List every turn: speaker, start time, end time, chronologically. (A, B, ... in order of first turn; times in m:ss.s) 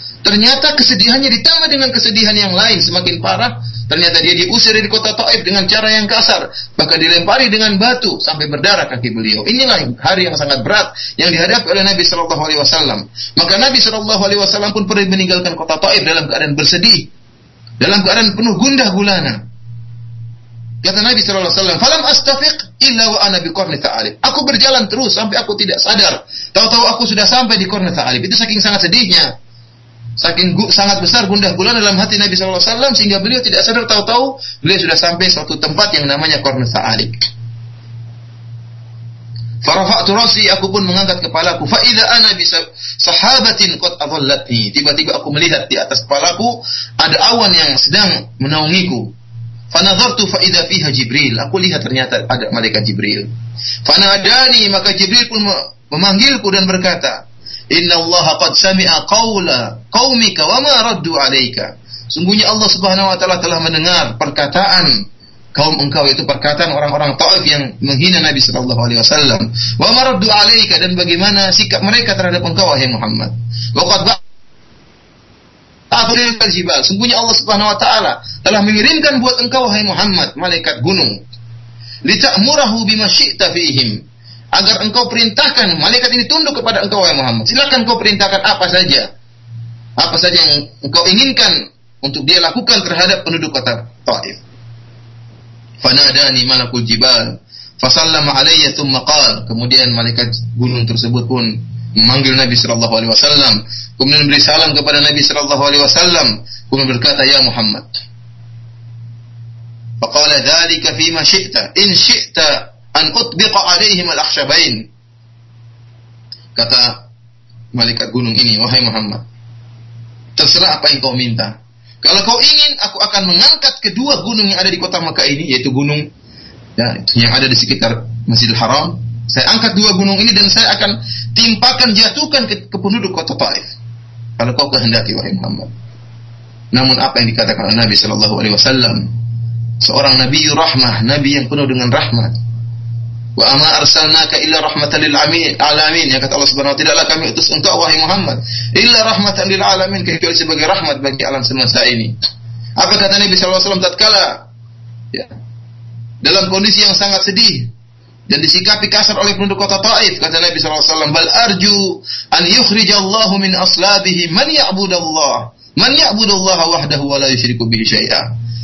0:00.2-0:17.1 A
0:17.8-0:19.4 A
0:20.8-0:29.3 A
0:30.2-0:37.2 A
0:39.6-0:49.1 A
0:49.7-0:53.3 A
0:53.8-1:04.9 A
1:05.6-1:14.2 A
1:15.9-1:21.2 A
1:22.1-1:24.0 A
1:24.6-1:29.1 A
1:30.0-1:34.4 A
1:35.8-1:47.9 A
1:50.0-1:54.8 A
1:56.6-1:57.0 A
1:57.8-1:59.2 A
2:00.4-2:06.0 A
2:06.8-2:13.7 A
2:14.4-2:15.7 A
2:16.7-2:19.1 A
2:19.8-2:22.4 A
2:23.4-2:32.1 A
2:32.8-2:34.4 A
2:36.2-2:37.7 A
2:38.3-2:48.3 A